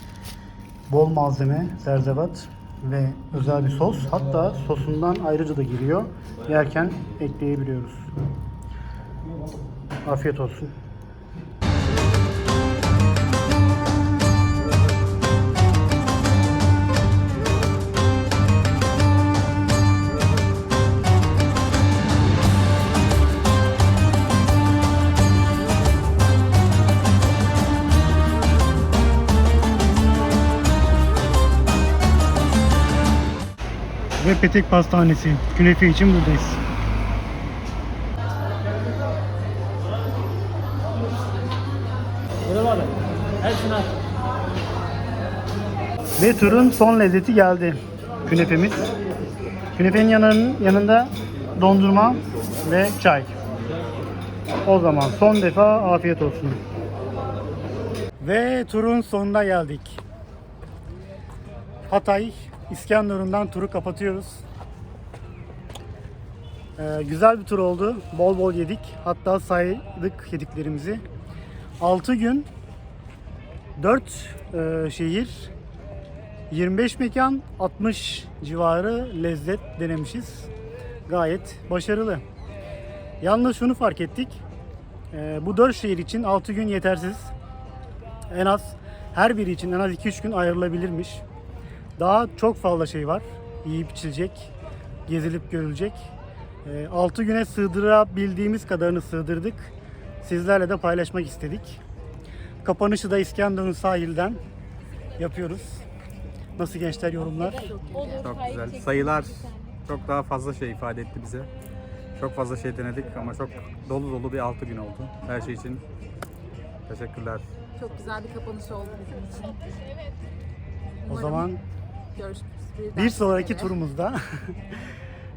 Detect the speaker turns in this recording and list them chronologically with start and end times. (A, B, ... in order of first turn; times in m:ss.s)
0:00.9-0:08.1 A
0:10.0-0:10.7 A
0:34.2-0:36.6 A
0:46.2-0:48.9 A
0:49.8-0:53.3 A
0:54.6-0:56.6 A
0:58.2-1:00.0 A
1:01.9-1:04.4 A
1:06.8-1:11.0 A
1:11.8-1:12.5 A
1:13.8-1:15.5 A
1:16.5-1:20.5 A
1:21.1-1:22.2 A
1:23.2-1:24.4 A
1:25.1-1:27.3 A
1:28.3-1:31.2 A
1:32.0-1:34.5 A
1:35.0-1:36.1 A
1:36.6-1:41.8 A
1:42.6-1:44.4 A
1:45.2-1:45.8 A
1:46.6-1:47.7 A
1:47.7-1:48.3 B
1:48.2-1:51.5 C
1:52.2-1:55.8 C
1:56.9-1:57.4 C
1:57.8-1:59.7 B
2:01.1-2:01.6 A
2:01.1-2:01.4 B
2:02.1-2:03.6 B
2:02.9-2:04.6 A